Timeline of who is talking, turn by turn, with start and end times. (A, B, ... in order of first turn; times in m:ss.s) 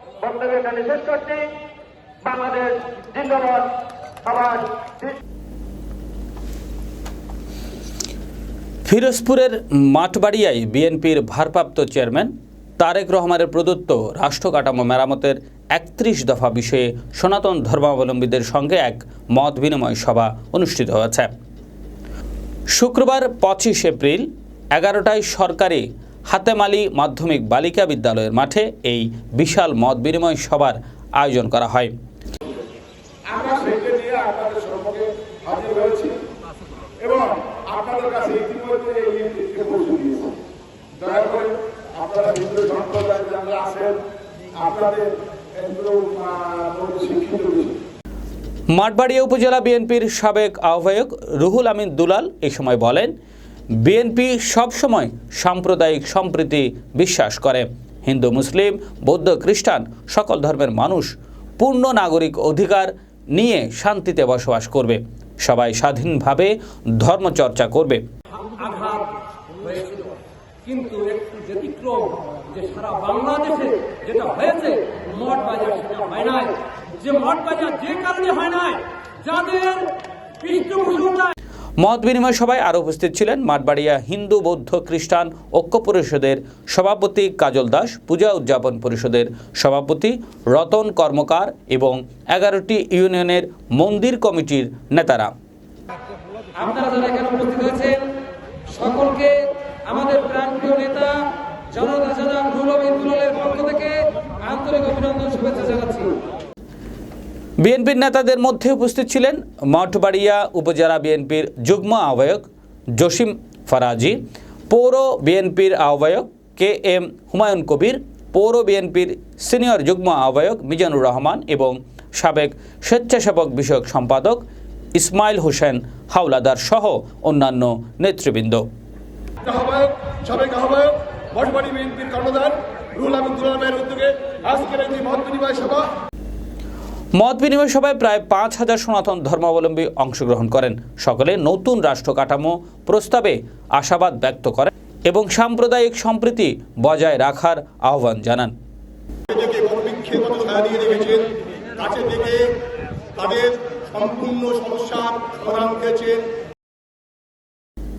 0:00.2-0:01.5 A
0:02.2-0:03.7 A
0:04.2-0:05.1 A
0:08.8-0:21.3 B
0:22.7-0:31.9 B
0:33.2-0:36.2 C
0:37.0-0:40.4 C
0:41.0-0:44.0 C
0:44.5-0:47.8 C
0:48.7-0:53.1 B
0:53.8-1:08.0 B
1:08.5-1:10.1 D
1:10.6-1:21.3 D
1:21.8-1:35.3 B
1:36.5-1:38.1 D
1:38.7-1:46.2 D
1:47.6-1:52.4 B
1:53.0-1:54.2 B
1:54.7-2:04.4 B
2:05.0-2:08.6 B
2:09.4-2:15.9 C
2:17.2-2:28.5 B
2:29.3-2:32.5 C
2:33.1-2:36.3 C